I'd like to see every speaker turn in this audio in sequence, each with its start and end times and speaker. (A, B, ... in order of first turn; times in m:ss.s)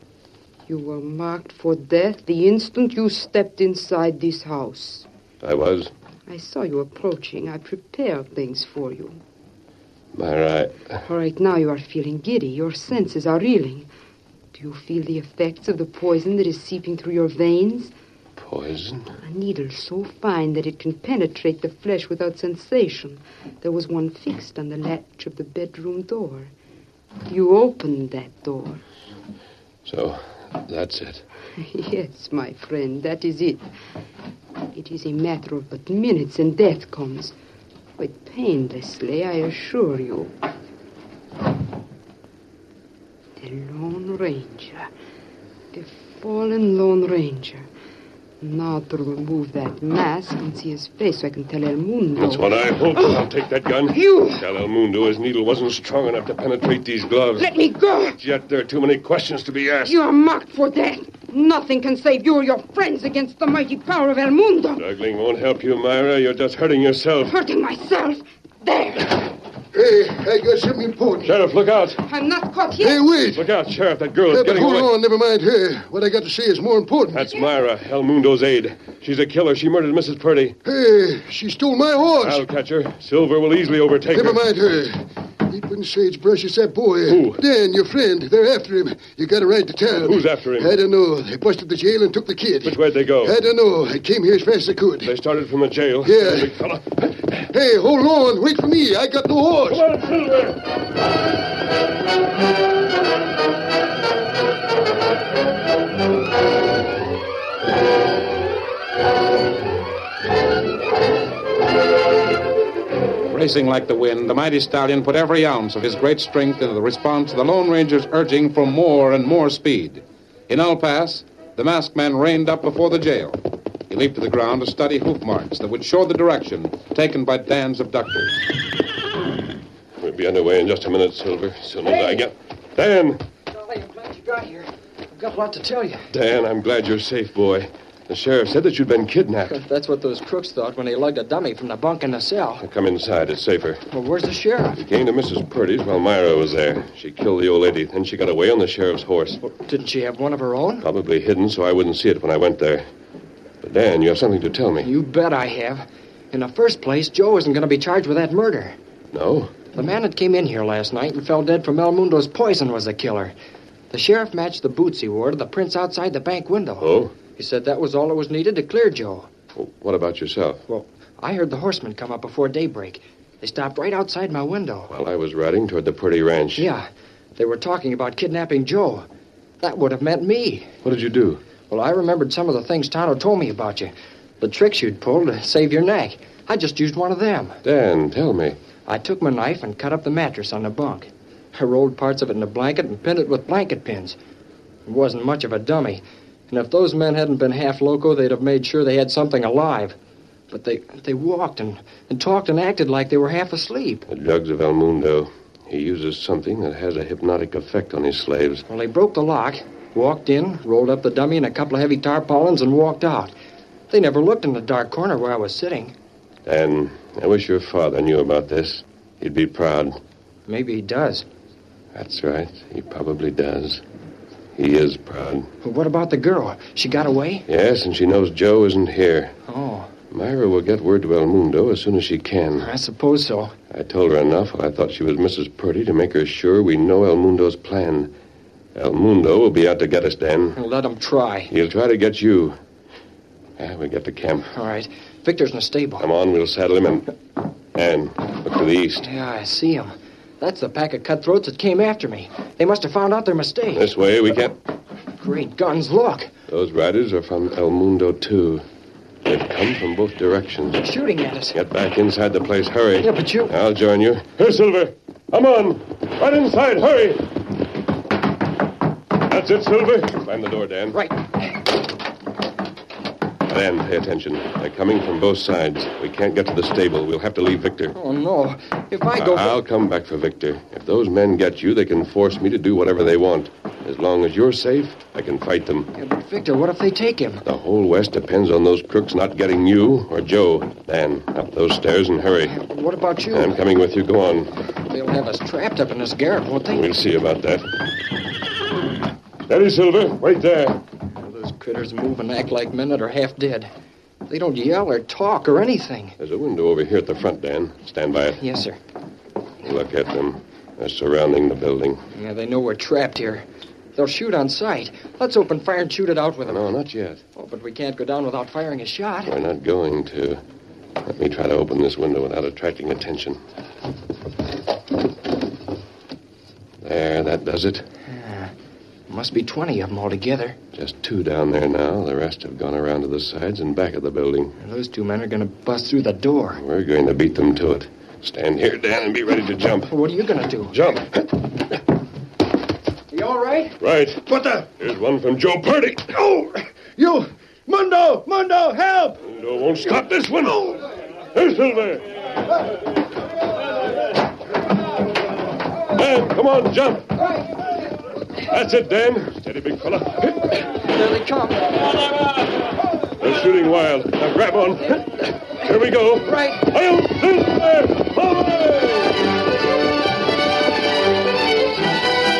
0:00.7-0:05.1 A
0:05.4-0:05.9 B
0:06.3-0:09.2 A
0:10.2-0:11.0 B
0:11.0-0:13.9 A
0:14.5-0:17.9 A
0:18.4-0:19.2 B
0:19.2-0:26.5 A
0:27.3-0:28.8 A
0:29.8-0:31.2 B
0:31.6-0:33.6 A
0:34.7-0:37.3 A
0:38.0-0:40.3 A
0:43.4-0:44.9 A
0:45.7-0:47.7 A
0:48.4-0:53.1 A
0:52.2-0:57.5 B
0:53.9-0:54.4 A
0:57.4-0:58.2 A
0:58.2-1:00.0 B
0:59.8-1:04.8 A
1:04.8-1:07.4 B
1:07.3-1:09.2 A
1:09.7-1:11.4 C
1:11.2-1:12.0 B
1:12.0-1:13.1 A
1:12.8-1:13.4 C
1:13.4-1:14.9 B
1:14.3-1:17.4 C
1:17.1-1:20.6 B
1:20.6-1:22.4 C
1:22.2-1:24.4 B
1:24.1-1:35.1 C
1:27.1-1:27.4 B
1:30.1-1:30.7 B
1:32.6-1:33.4 B
1:35.0-1:37.0 B
1:36.0-1:36.6 C
1:37.4-1:39.8 C
1:39.7-1:40.6 B
1:53.3-2:08.4 D
2:10.0-2:13.2 B
2:11.8-2:12.3 E
2:13.5-2:16.1 E
2:16.1-2:19.6 B
2:19.5-2:22.6 E
2:22.6-2:23.8 B
2:23.9-2:24.8 E
2:24.8-2:29.4 B
2:29.4-2:30.8 E
2:30.8-2:32.9 B
2:33.6-2:34.9 B
2:34.8-2:38.8 E
2:39.1-2:39.6 B
2:39.7-2:43.3 E
2:43.9-2:49.3 E
2:46.8-2:47.1 B
2:49.6-2:50.6 B
2:50.7-2:54.9 E
2:54.9-2:56.7 B
2:56.6-2:59.1 E
2:59.6-3:00.7 E
3:00.8-3:01.4 B
3:01.7-3:07.6 E
3:07.6-3:08.6 B
3:08.9-3:14.2 E
3:14.9-3:20.0 E
3:20.5-3:24.1 E
3:24.1-3:28.7 B
3:28.7-3:33.3 E
3:33.9-3:36.0 E
3:36.5-3:40.0 B
3:40.5-3:41.2 E
3:41.9-3:43.8 B
3:44.6-3:45.5 B
3:45.6-3:47.4 E
3:47.5-3:49.4 B
3:49.5-3:49.9 E
3:50.1-3:52.7 B
3:52.6-3:53.5 E
3:53.7-3:58.1 B
3:58.8-4:00.6 B
4:00.6-4:01.5 E
4:01.5-4:02.6 B
4:03.6-4:04.5 B
4:04.5-4:06.1 E
4:06.0-4:07.1 B
4:07.7-4:09.1 B
4:09.0-4:13.9 E
4:13.7-4:14.6 B
4:15.2-4:16.3 E
4:16.5-4:18.7 B
4:19.2-4:20.9 B
4:20.8-4:21.6 E
4:21.5-4:27.3 B
4:23.0-4:23.5 E
4:29.2-4:31.0 B
4:30.9-4:31.5 E
4:33.5-4:38.0 B
4:38.0-4:39.6 E
4:39.1-4:45.9 B
4:46.0-4:47.4 E
4:47.5-4:52.6 B
4:52.5-4:53.5 E
4:53.3-4:54.5 B
4:54.9-4:56.9 E
4:56.7-4:57.7 B
4:59.5-5:00.8 B
5:01.2-5:03.7 E
5:04.3-5:06.2 E
5:06.2-5:08.4 B
5:08.4-5:08.8 E
5:09.6-5:12.0 B
5:12.1-5:16.7 E
5:16.4-5:17.2 B
5:17.4-5:19.3 E
5:19.2-5:20.4 B
5:21.1-5:23.4 B
5:26.8-5:27.9 B
5:28.1-5:28.5 E
5:29.1-5:30.6 E
5:30.7-5:34.6 B
5:34.6-5:36.6 E
5:36.6-5:39.9 B
5:39.9-5:40.8 E
5:40.7-5:41.7 B
5:43.1-5:43.8 E
5:43.8-5:46.2 B
5:47.8-5:49.1 C
5:49.2-5:52.1 B
5:55.9-5:57.3 B
5:58.5-6:00.7 B
6:00.8-6:02.0 E
6:03.2-6:09.2 B
6:06.2-6:06.6 E